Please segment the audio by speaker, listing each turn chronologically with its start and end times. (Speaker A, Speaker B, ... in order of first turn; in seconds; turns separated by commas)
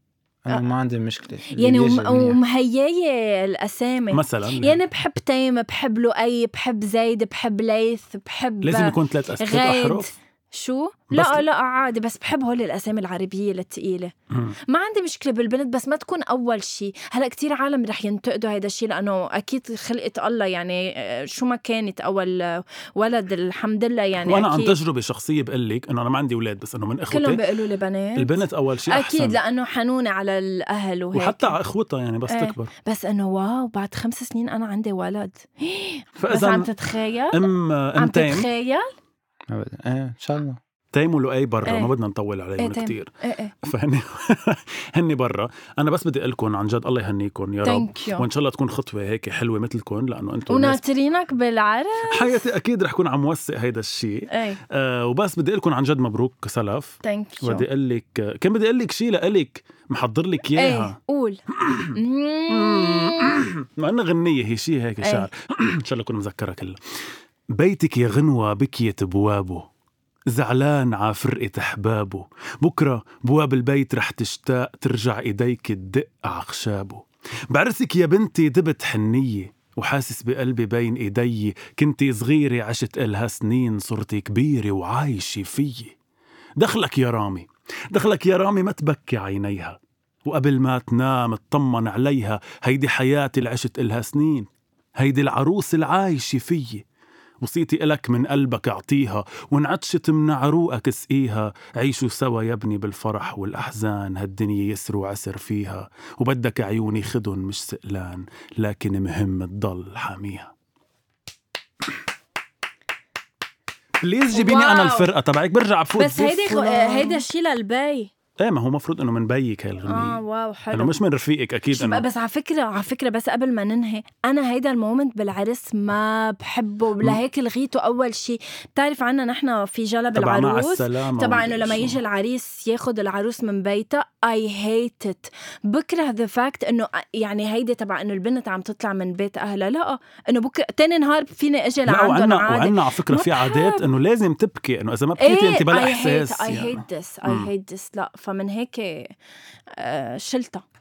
Speaker A: 0.4-2.4, Speaker B: 1.6-14.1, Speaker C: 4.1-4.8, Speaker C: 8.6-10.1, Speaker C: 11.1-11.4, Speaker C: 14.3-14.6, Speaker B: 14.7-24.8, Speaker C: 24.2-27.4, Speaker B: 27.1-28.4, Speaker C: 28.1-29.4, Speaker B: 28.9-31.6, Speaker C: 31.1-32.7, Speaker B: 32.3-38.9, Speaker C: 36.2-36.7, Speaker C: 37.3-38.5, Speaker A: 39.5-40.6, Speaker C: 40.9-43.1, Speaker B: 41.6-41.9, Speaker B: 42.6-43.5, Speaker C: 43.6-50.8, Speaker B: 47.6-48.2, Speaker B: 50.5-52.4, Speaker C: 52.1-61.0, Speaker B: 54.3-54.6, Speaker B: 57.0-57.6, Speaker B: 60.5-61.4, Speaker C: 61.5-62.0, Speaker B: 61.9-63.4, Speaker C: 62.5-66.8, Speaker B: 65.0-65.3, Speaker C: 67.5-69.7, Speaker C: 70.3-85.9, Speaker C: 86.6-96.8, Speaker C: 97.4-110.5, Speaker C: 114.0-117.2, Speaker B: 114.3-115.1, Speaker B: 116.0-118.1, Speaker C: 118.4-120.2, Speaker B: 119.8-120.9, Speaker C: 120.7-122.0, Speaker B: 121.7-143.8, Speaker C: 130.1-132.0, Speaker C: 141.9-147.5, Speaker B: 145.2-149.1, Speaker B: 149.8-150.6